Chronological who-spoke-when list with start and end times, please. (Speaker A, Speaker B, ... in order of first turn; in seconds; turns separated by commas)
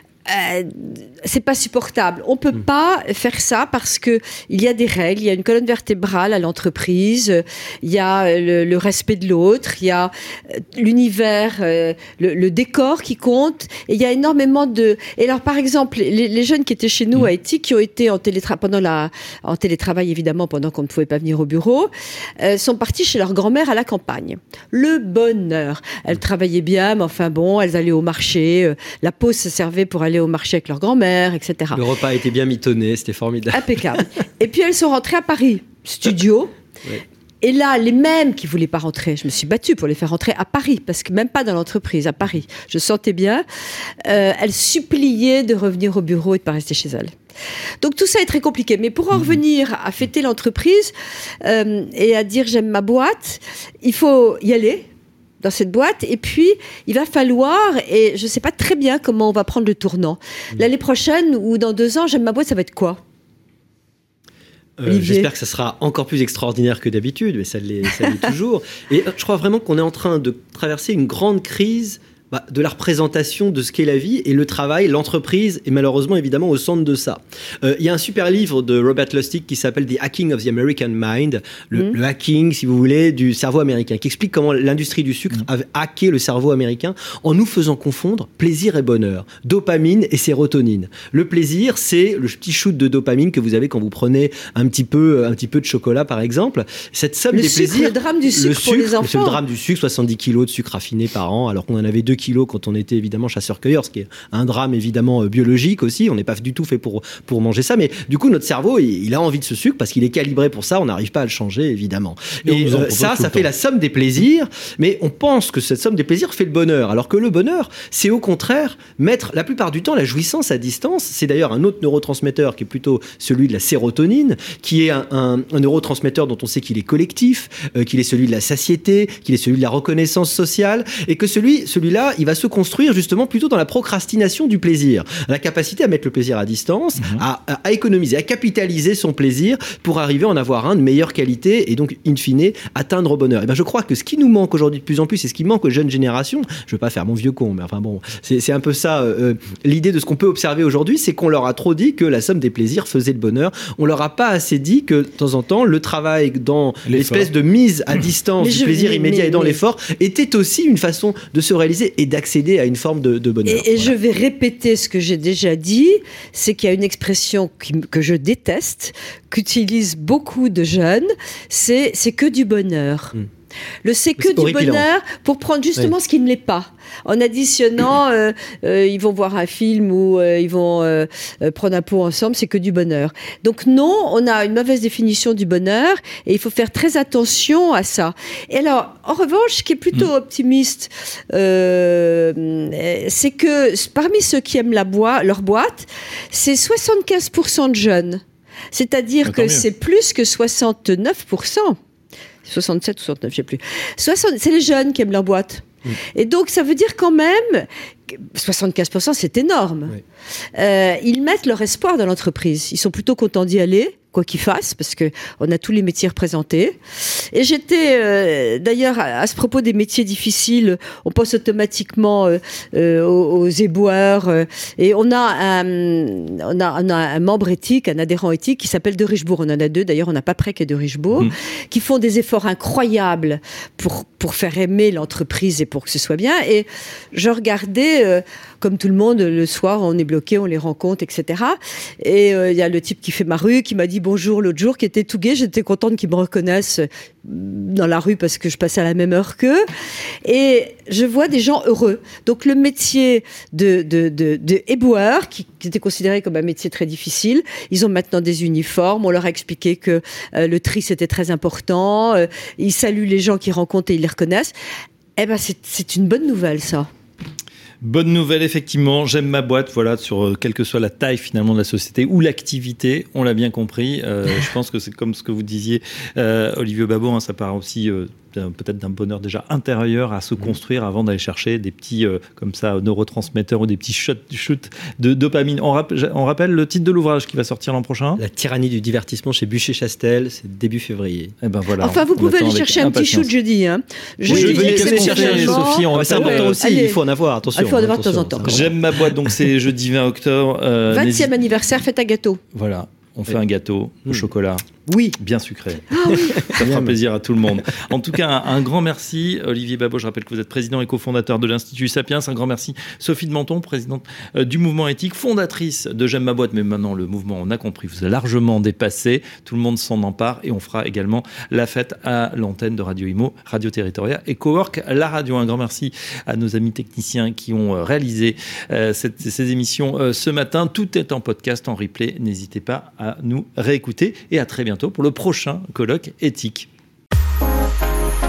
Speaker A: 0.2-31.8, Speaker B: 31.7-34.0, Speaker A: 33.5-36.5, Speaker A: 37.4-43.4, Speaker A: 44.0-47.1, Speaker A: 47.8-54.9, Speaker A: 55.4-63.0, Speaker B: 64.8-163.9, Speaker A: 64.8-65.3, Speaker A: 97.3-99.4, Speaker C: 112.4-113.5, Speaker C: 156.8-157.3, Speaker A: 158.4-159.6, Speaker A: 163.4-173.2, Speaker A: 173.8-201.8, Speaker B: 174.2-174.8, Speaker C: 199.2-199.6, Speaker A: 202.4-210.0, Speaker A: 210.5-249.6, Speaker A: 250.2-264.5, Speaker A: 265.2-266.9, Speaker C: 267.8-288.2, Speaker B: 288.2-291.3, Speaker C: 291.4-293.3, Speaker A: 291.8-297.0, Speaker B: 294.2-298.8, Speaker C: 294.3-296.6, Speaker A: 297.5-298.7, Speaker C: 298.4-301.3, Speaker A: 300.9-302.4, Speaker C: 302.5-336.7, Speaker A: 305.9-306.5, Speaker B: 306.4-306.9